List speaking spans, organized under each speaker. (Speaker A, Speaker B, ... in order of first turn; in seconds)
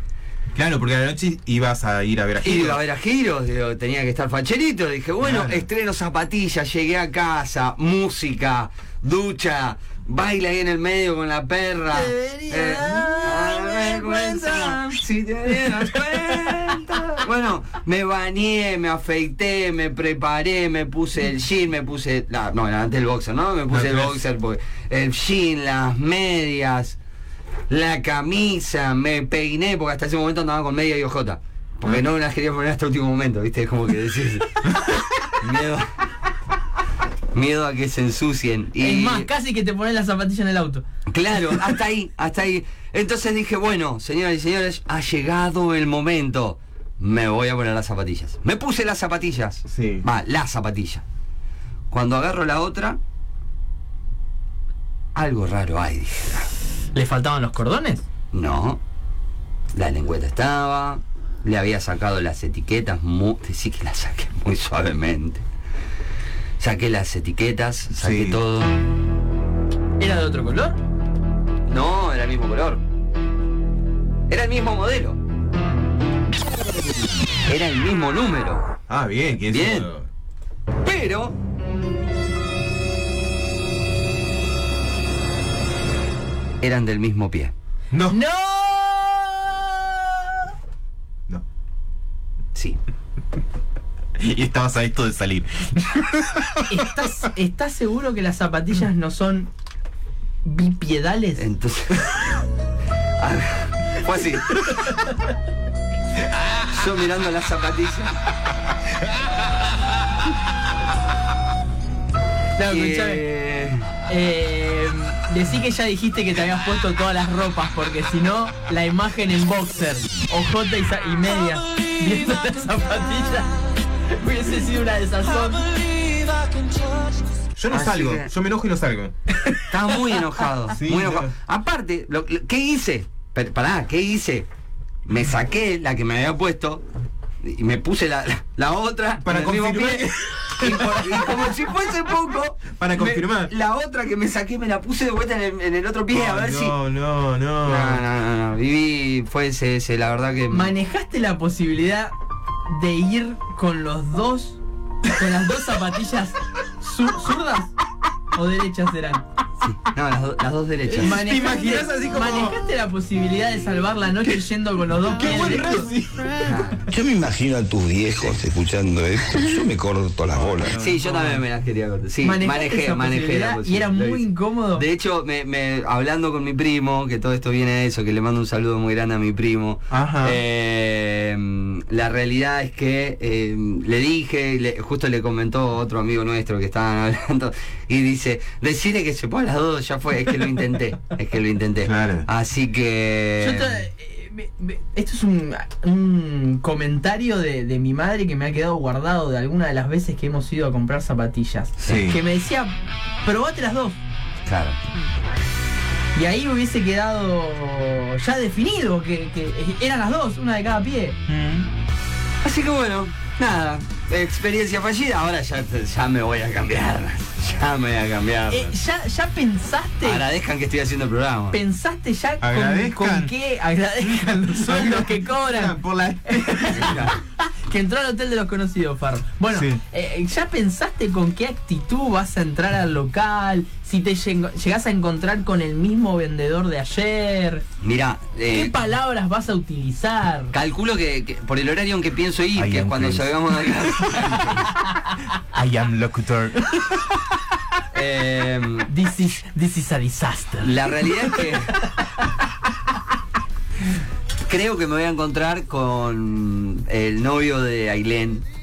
Speaker A: 0.5-2.8, 5.2-5.7, 23.7-24.2, 49.7-50.0, 68.0-68.4, 78.9-80.1, 87.9-88.2, 94.2-96.9, 127.5-129.1, 130.7-131.3, 139.2-141.6, 142.8-143.5, 146.1-148.0, 160.9-162.6, 164.9-166.9, 170.3-171.4, 179.9-180.4, 191.8-192.2, 201.8-202.2, 211.3-211.7, 222.4-223.3, 224.0-227.0, 229.5-229.8, 242.6-243.4, 245.5-247.1
Speaker B: 2.4-27.0, 27.7-34.8, 35.3-35.9, 37.3-39.3, 41.1-51.0, 51.9-53.0, 55.1-56.5, 58.3-58.8, 59.7-65.4, 66.6-68.7, 71.7-72.8, 74.3-75.2, 77.5-78.7, 79.5-79.9, 80.8-81.3, 86.6-87.5, 101.4-102.1, 103.2-104.6, 106.4-108.2, 112.7-113.9, 127.7-128.3, 129.6-134.5, 135.1-136.8, 137.4-146.8, 147.6-150.7, 159.6-161.2, 166.4-166.9, 170.7-174.2, 174.7-193.8, 204.4-204.8, 212.4-218.8, 220.0-221.6, 226.7-227.2, 237.8-238.8, 240.5-244.7, 247.9-248.9, 250.6-251.8, 254.5-258.4
Speaker C: 11.9-14.9, 15.6-16.7, 38.8-40.8, 56.9-58.0, 70.0-70.8, 88.1-90.5, 96.7-99.5, 100.4-101.5, 104.6-105.3, 112.6-113.2, 114.1-125.7, 150.5-152.1, 152.7-157.7, 158.3-159.2, 161.0-165.9, 172.2-174.8, 193.4-204.0, 206.1-211.2, 218.5-220.2, 221.5-237.6, 238.5-240.5, 248.9-251.4
Speaker D: 125.7-127.1, 166.9-170.8